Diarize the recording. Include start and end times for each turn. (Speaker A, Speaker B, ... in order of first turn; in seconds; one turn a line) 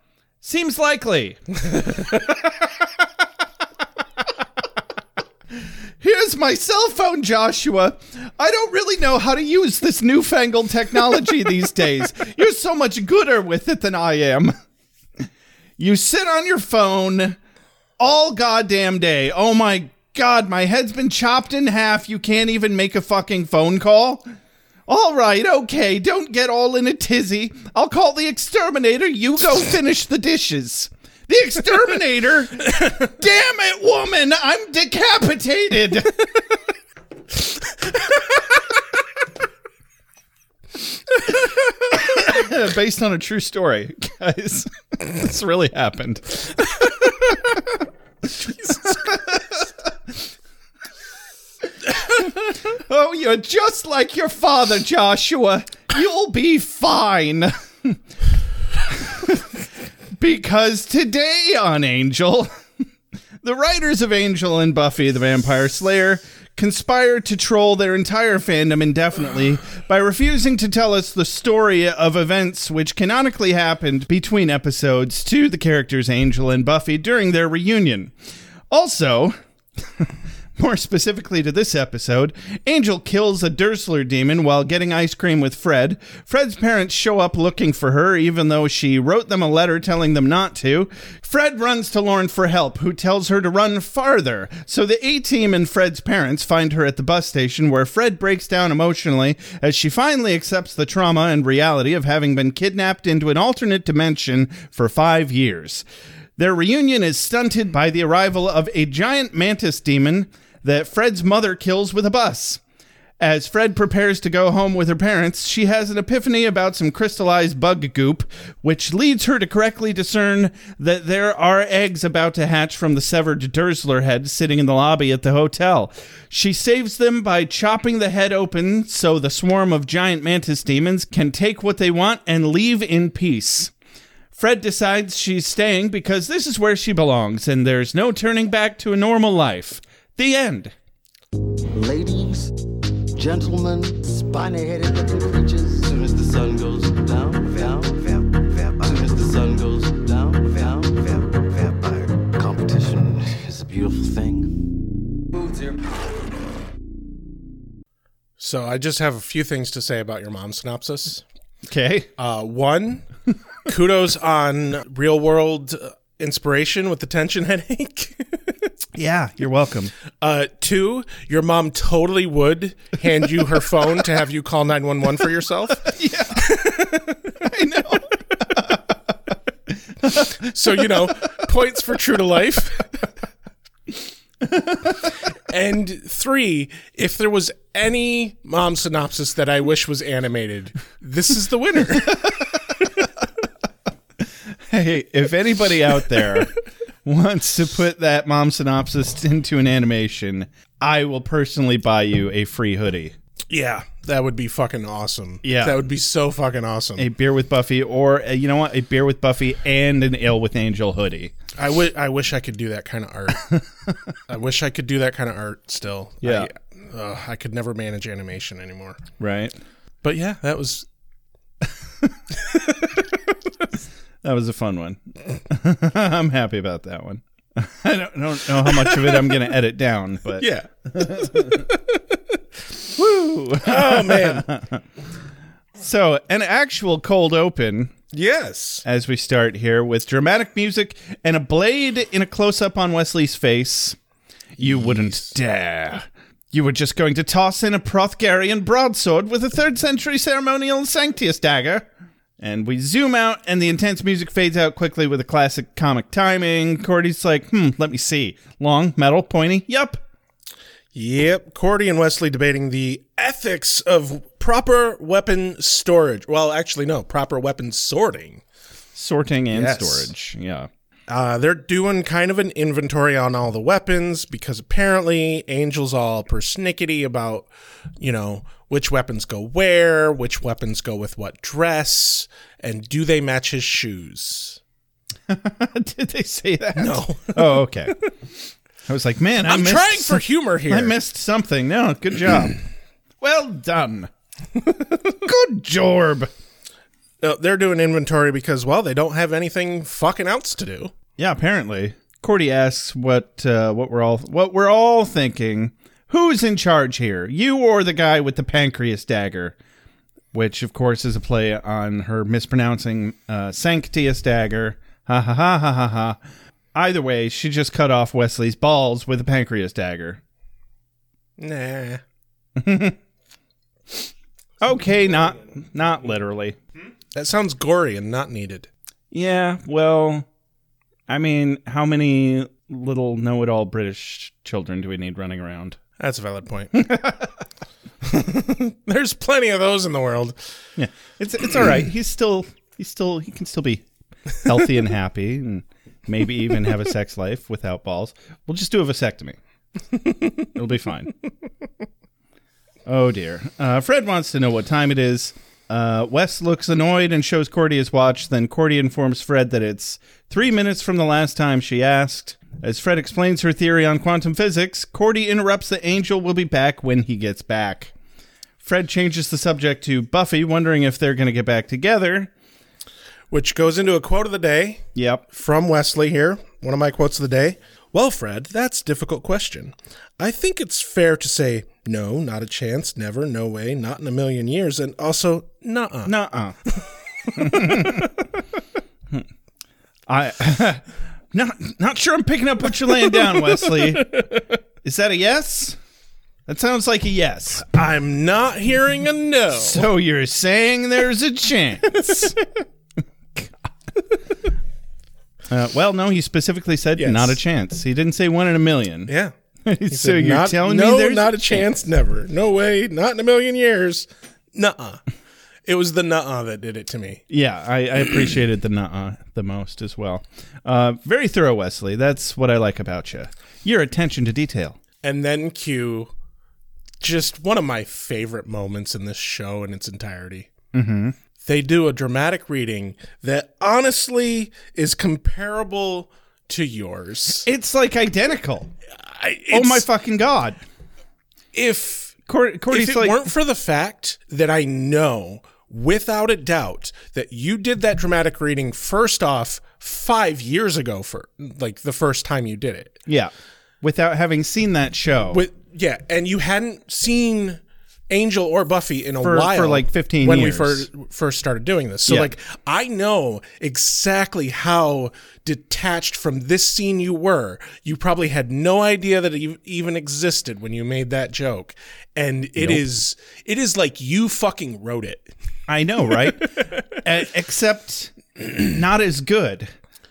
Speaker A: 0.4-1.4
Speaker A: 6.0-14.5
Speaker A: 15.8-17.4
Speaker A: 18.0-24.3
Speaker A: 24.9-36.2
Speaker A: 41.9-47.6
Speaker A: 48.2-49.6
Speaker A: 51.9-58.0
Speaker A: 58.9-59.5
Speaker A: 60.1-62.5
Speaker A: 63.4-78.1
Speaker A: 78.7-105.8
Speaker A: 106.4-112.6
Speaker A: 113.2-133.7
Speaker A: 134.3-140.7
Speaker B: 141.7-142.5
Speaker B: 143.1-154.6
Speaker C: 158.4-161.2
Speaker A: 161.7-162.1
Speaker C: 162.2-163.1
Speaker C: 163.7-168.5
Speaker A: 168.9-169.9
Speaker C: 170.2-177.2
Speaker A: 175.8-176.8
Speaker A: 177.4-178.8
Speaker A: 180.0-180.9
Speaker C: 180.3-183.1
Speaker A: 184.4-185.1
Speaker C: 185.5-192.3
Speaker A: 194.7-196.5
Speaker A: 197.0-203.1
Speaker C: 203.5-207.1
Speaker A: 205.4-205.8
Speaker A: 207.0-211.3
Speaker C: 211.6-213.4
Speaker C: 214.3-219.0
Speaker A: 216.2-216.5
Speaker A: 219.2-219.6
Speaker C: 220.0-220.8
Speaker A: 224.2-231.6
Speaker C: 228.7-229.3
Speaker C: 230.4-232.2
Speaker A: 232.9-234.8
Speaker C: 233.6-234.5
Speaker A: 235.8-237.9
Speaker C: 238.1-238.8
Speaker A: 238.8-244.0
Speaker C: 244.6-245.3
Speaker A: 244.6-251.9
Speaker A: 252.4-260.0
Speaker C: 260.9-268.4
Speaker A: 268.9-270.7
Speaker C: 269.5-270.1
Speaker C: 271.1-277.5
Speaker C: 278.0-284.6
Speaker A: 285.3-288.0
Speaker C: 286.7-287.7
Speaker A: 288.9-292.6
Speaker C: 289.4-291.0
Speaker A: 293.2-294.1
Speaker A: 295.2-296.3
Speaker C: 297.2-300.9
Speaker A: 301.2-309.6
Speaker A: 310.3-316.2
Speaker A: 316.7-320.2
Speaker C: 321.4-322.0
Speaker A: 322.6-323.0
Speaker A: 324.6-326.6
Speaker C: 327.1-328.7
Speaker A: 329.1-330.3
Speaker A: 331.1-335.8
Speaker C: 336.0-336.8
Speaker A: 336.7-337.3
Speaker C: 338.0-340.4
Speaker A: 340.8-343.8
Speaker A: 344.4-349.4
Speaker A: 350.5-351.1
Speaker A: 352.9-367.9
Speaker A: 368.6-372.3
Speaker C: 373.3-386.1
Speaker A: 374.9-375.2
Speaker A: 386.1-386.6
Speaker C: 386.8-388.2
Speaker A: 387.3-388.1
Speaker A: 390.1-394.3
Speaker C: 393.0-394.5
Speaker A: 394.8-395.8
Speaker A: 396.5-397.6
Speaker C: 397.6-399.9
Speaker A: 399.6-402.4
Speaker A: 405.5-409.1
Speaker C: 406.9-407.4
Speaker C: 409.1-409.3
Speaker A: 409.6-411.6
Speaker C: 409.9-415.0
Speaker C: 415.6-417.2
Speaker A: 417.3-424.8
Speaker C: 425.0-426.1
Speaker C: 427.0-430.5
Speaker A: 430.7-431.1
Speaker C: 431.4-437.5
Speaker A: 437.4-438.7
Speaker C: 439.0-439.9
Speaker A: 439.5-440.6
Speaker C: 441.5-442.2
Speaker A: 442.3-443.2
Speaker C: 442.7-453.0
Speaker A: 453.1-455.4
Speaker C: 455.3-475.3
Speaker A: 459.2-460.9
Speaker A: 462.1-462.3
Speaker A: 472.6-472.8
Speaker A: 475.7-479.7